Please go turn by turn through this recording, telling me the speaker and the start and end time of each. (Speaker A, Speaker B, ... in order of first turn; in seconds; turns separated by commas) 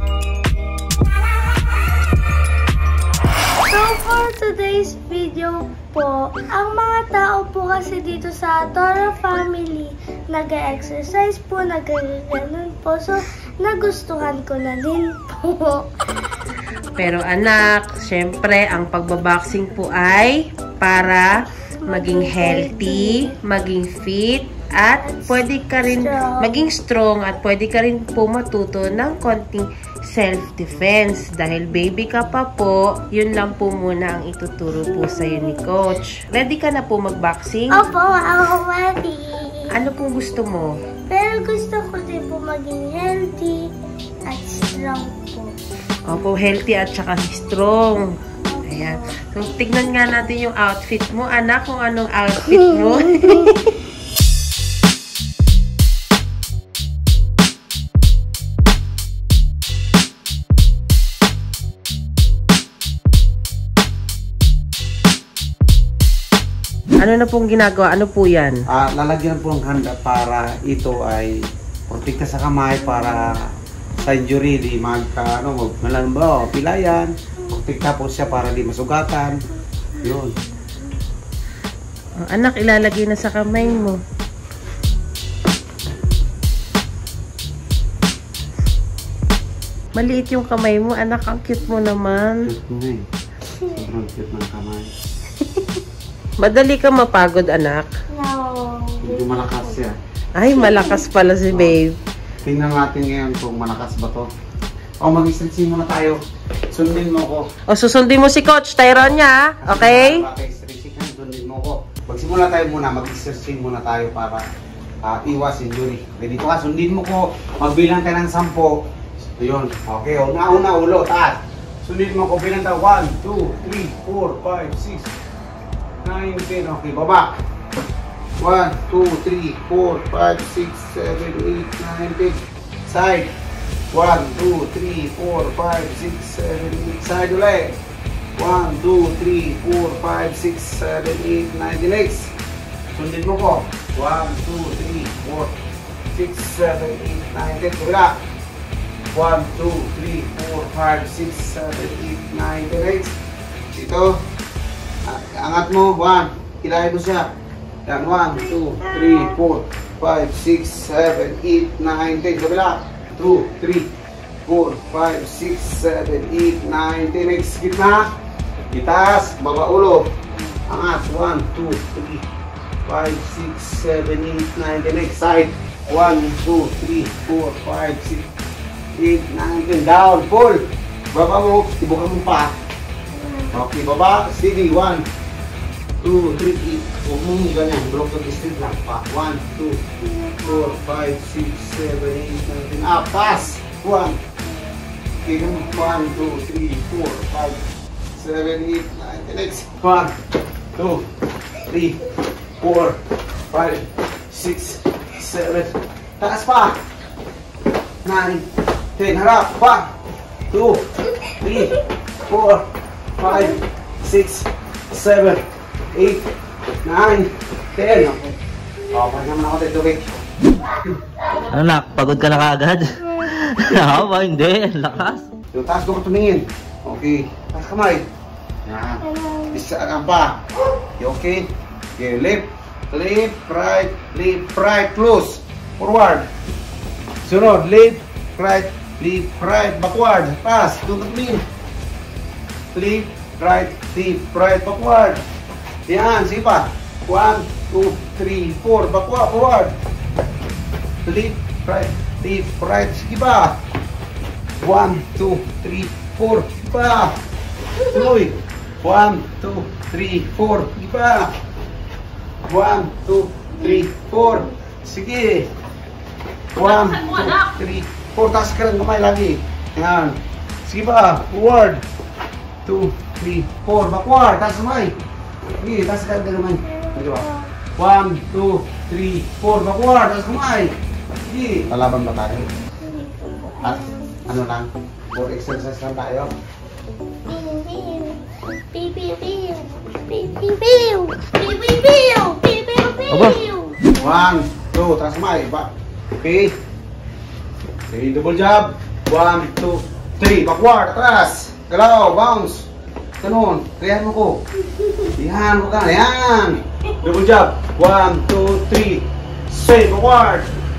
Speaker A: 3.7-15.8, Speaker B: 16.9-21.3, Speaker A: 21.9-23.3, Speaker B: 21.9-37.8, Speaker A: 25.0-26.5, Speaker A: 37.7-39.6, Speaker B: 39.7-40.8, Speaker A: 41.1-43.7, Speaker A: 44.3-45.5, Speaker B: 46.1-48.1, Speaker A: 48.5-49.0, Speaker B: 48.7-53.7, Speaker B: 67.0-68.6, Speaker C: 68.7-71.4, Speaker C: 71.9-73.5, Speaker C: 74.0-79.3, Speaker C: 80.0-80.3, Speaker B: 82.2-84.0, Speaker B: 89.9-92.4, Speaker C: 92.5-93.0, Speaker C: 93.7-94.9, Speaker B: 96.4-97.9, Speaker A: 98.1-99.8, Speaker C: 99.0-99.9, Speaker B: 100.3-102.0, Speaker A: 100.5-101.0, Speaker C: 101.5-101.8, Speaker C: 102.4-104.3, Speaker C: 105.0-106.2, Speaker C: 106.7-107.5, Speaker B: 107.7-110.2, Speaker C: 109.6-114.5, Speaker C: 115.0-118.8, Speaker C: 119.4-125.1, Speaker C: 126.0-127.3, Speaker C: 128.4-133.3, Speaker C: 133.9-137.8, Speaker C: 138.4-142.3, Speaker C: 142.9-145.5, Speaker C: 146.1-148.1, Speaker C: 149.1-153.1, Speaker C: 153.7-154.1, Speaker C: 155.1-157.3, Speaker C: 157.9-163.9, Speaker A: 158.3-159.4, Speaker C: 164.4-168.1, Speaker C: 168.7-170.1, Speaker C: 170.7-172.2, Speaker C: 172.8-178.2, Speaker C: 179.0-180.6, Speaker C: 181.1-182.5, Speaker A: 183.1-183.5, Speaker C: 183.5-185.0, Speaker C: 186.0-189.8, Speaker A: 190.0-190.8, Speaker C: 190.4-194.2, Speaker A: 194.4-194.7, Speaker C: 195.2-197.6, Speaker A: 195.2-196.4, Speaker C: 198.2-200.1, Speaker C: 200.8-201.0, Speaker C: 201.7-202.0, Speaker C: 202.6-203.0, Speaker C: 203.5-206.8, Speaker C: 208.0-209.9, Speaker C: 210.5-210.8, Speaker C: 211.4-212.6, Speaker C: 213.2-215.4, Speaker A: 213.2-213.6, Speaker C: 215.9-216.3, Speaker C: 216.8-218.3, Speaker C: 218.9-220.1, Speaker D: 221.5-225.3, Speaker C: 225.5-228.1, Speaker C: 228.7-230.4, Speaker A: 229.0-229.6, Speaker C: 231.0-236.3, Speaker C: 237.2-241.4, Speaker C: 242.7-245.2, Speaker C: 245.9-249.7, Speaker C: 251.1-253.6, Speaker C: 254.6-257.1, Speaker C: 257.9-261.3, Speaker C: 262.5-265.5, Speaker A: 263.6-264.5, Speaker C: 266.5-271.8, Speaker B: 266.6-267.5, Speaker C: 272.6-274.9, Speaker C: 275.6-277.2, Speaker A: 276.6-277.5, Speaker C: 277.8-280.7, Speaker C: 281.3-282.4, Speaker A: 282.8-283.9, Speaker C: 283.6-286.3, Speaker A: 287.3-293.8, Speaker D: 293.1-293.4, Speaker C: 293.9-295.7, Speaker C: 296.2-296.5, Speaker C: 297.9-302.7, Speaker C: 303.2-304.4, Speaker C: 305.1-310.5